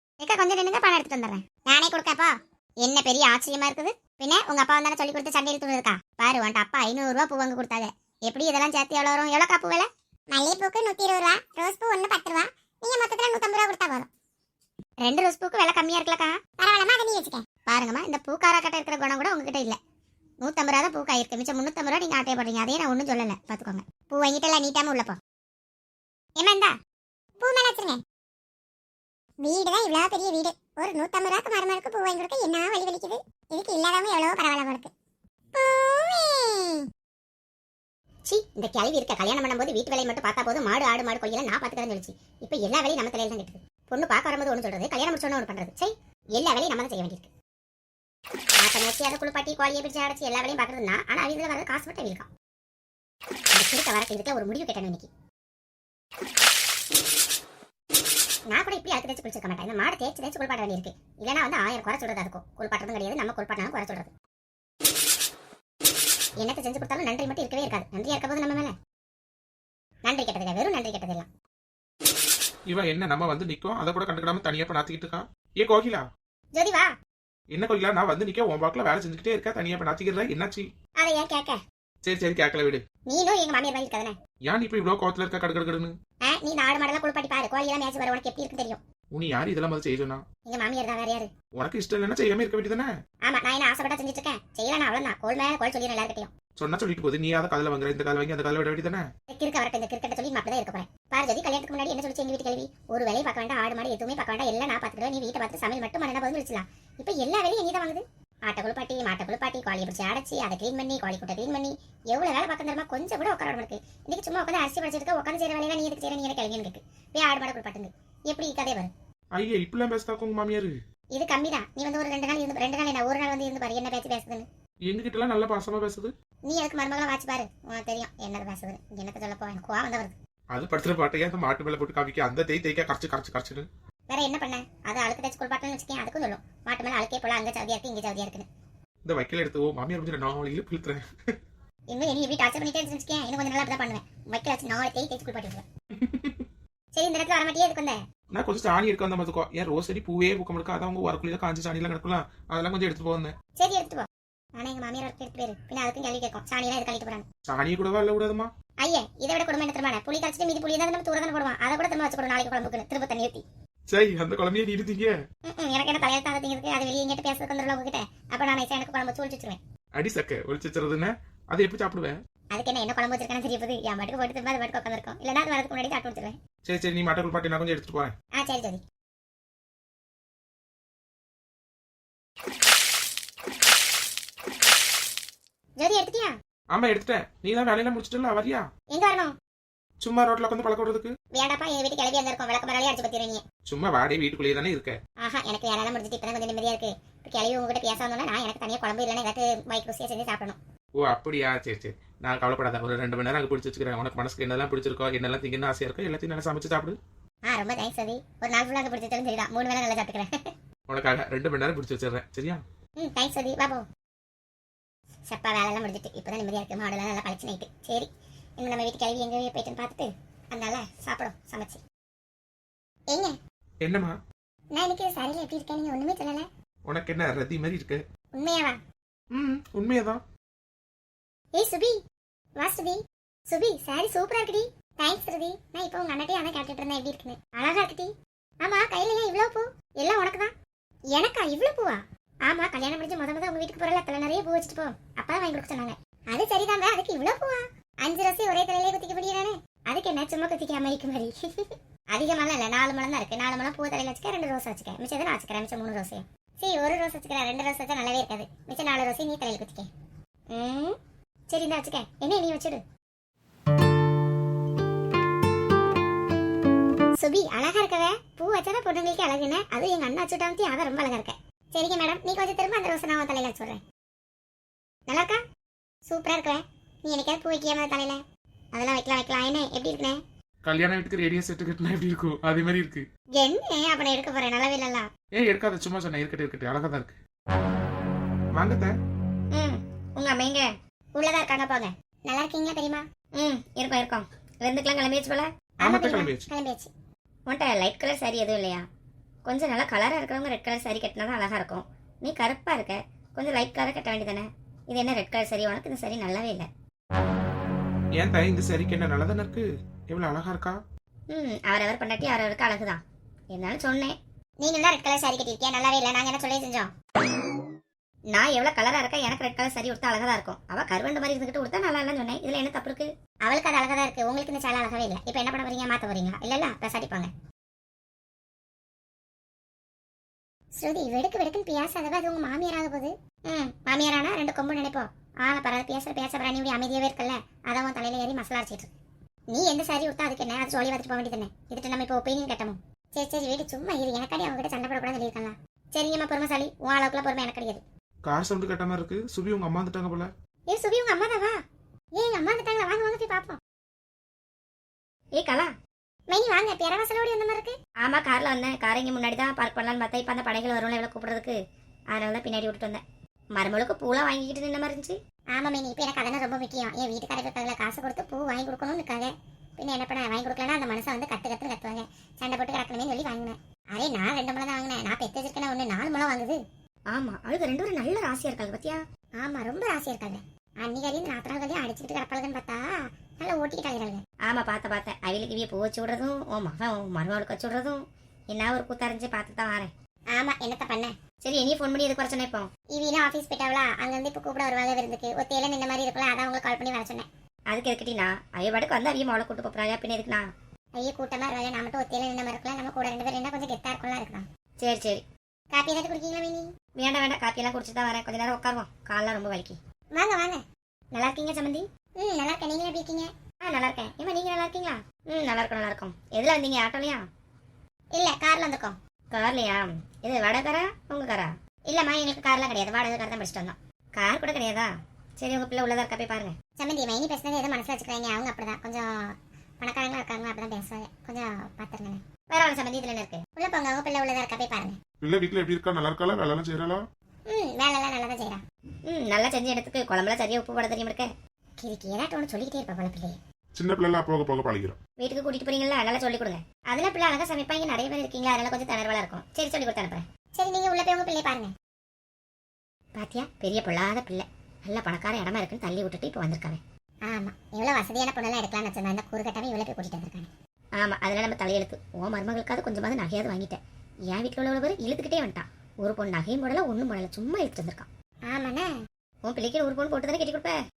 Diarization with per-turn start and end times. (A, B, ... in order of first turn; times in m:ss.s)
0:00.2-0:14.1 A
0:15.0-0:19.8 A
0:20.4-0:25.2 A
0:26.4-0:26.7 A
0:27.4-0:28.0 A
0:29.4-0:34.9 A
0:35.5-0:36.8 A
0:38.3-0:47.3 A
0:48.6-0:52.3 A
0:53.5-0:55.1 A
0:58.5-1:04.1 A
1:06.4-1:08.7 A
1:10.0-1:11.3 A
1:12.7-1:16.1 B
1:16.5-1:16.9 A
1:17.5-1:20.7 B
1:21.0-1:21.6 A
1:22.0-1:22.8 B
1:23.0-1:24.2 A
1:24.4-1:26.0 B
1:26.2-1:28.8 A
1:29.1-1:30.2 B
1:30.5-1:31.3 A
1:31.6-1:32.9 B
1:33.2-1:36.3 A
1:36.6-1:39.1 B
1:39.3-1:58.9 A
1:59.3-2:00.8 B
2:01.1-2:04.5 A
2:04.8-2:06.1 B
2:06.5-2:10.2 A
2:10.5-2:13.7 B
2:14.1-2:18.5 A
2:19.0-2:21.0 B
2:21.9-2:25.6 A
2:26.0-2:26.4 B
2:27.0-2:28.0 A
2:28.3-2:33.3 B
2:33.6-2:37.2 A
2:37.5-2:38.5 B
2:38.8-2:43.4 A
2:43.9-2:45.2 B
2:45.5-2:49.6 A
2:50.0-2:52.2 B
2:52.5-2:56.4 A
2:56.7-2:58.1 B
2:58.4-2:58.8 A
3:05.8-3:06.3 A
3:06.7-3:08.7 B
3:08.9-3:09.3 A
3:10.0-3:11.1 B
3:11.3-3:13.4 A
3:13.7-3:15.0 B
3:15.2-3:20.6 A
3:21.0-3:27.0 B
3:27.5-3:30.3 A
3:30.9-3:32.6 B
3:33.0-3:33.8 A
3:35.3-3:41.8 A
3:43.8-3:44.2 B
3:44.7-3:46.5 A
3:46.9-3:48.0 B
3:48.3-3:48.8 A
3:49.3-3:50.2 B
3:51.5-3:52.0 A
3:52.6-4:00.5 A
4:01.2-4:11.3 A
4:12.1-4:19.9 A
4:20.5-4:21.0 A
4:21.5-4:22.8 A
4:27.2-4:33.8 A
4:35.1-4:35.4 A
4:36.1-4:38.2 A
4:38.7-4:40.2 A
4:40.6-4:43.1 B
4:43.4-4:45.1 A
4:45.3-4:47.2 B
4:48.5-4:48.9 B
4:49.5-4:50.7 C
4:51.2-4:53.0 A
4:53.4-4:55.5 C
4:55.8-4:56.4 B
4:55.8-4:56.9 A
4:57.5-4:58.8 C
4:59.4-5:06.7 C
5:08.1-5:10.8 B
5:11.3-5:13.0 C
5:13.5-5:14.1 C
5:14.6-5:16.9 A
5:18.3-5:23.1 C
5:23.4-5:27.3 A
5:30.8-5:38.9 A
5:39.5-5:47.8 A
5:48.2-5:50.3 B
5:50.7-5:51.5 A
5:52.2-5:53.6 A
5:55.4-5:55.7 C
5:56.3-5:57.8 A
5:58.0-6:01.6 C
6:02.1-6:03.0 C
6:03.5-6:05.2 C
6:05.5-6:16.6 A
6:17.1-6:19.0 C
6:19.4-6:24.2 A
6:24.4-6:28.0 C
6:28.5-6:29.9 C
6:30.3-6:31.1 A
6:31.4-6:32.7 C
6:32.9-6:37.2 A
6:37.7-6:40.4 C
6:41.0-6:44.4 A
6:44.8-6:45.2 C
6:45.7-6:46.6 A
6:47.0-6:49.8 C
6:50.1-6:50.6 A
6:51.1-6:51.8 C
6:52.2-6:53.3 A
6:53.6-6:57.2 C
6:58.1-6:59.0 A
6:59.3-7:06.5 C
7:06.8-7:12.2 A
7:12.5-7:13.4 C
7:13.6-7:15.0 A
7:15.2-7:17.0 D
7:17.5-7:18.6 A
7:19.1-7:21.3 C
7:21.8-7:23.4 A
7:23.8-7:25.0 D
7:25.2-7:30.2 C
7:30.5-7:31.7 A
7:33.2-7:36.8 C
7:37.3-7:40.5 A
7:41.0-7:48.1 C
7:48.5-7:48.9 A
7:49.4-7:50.8 C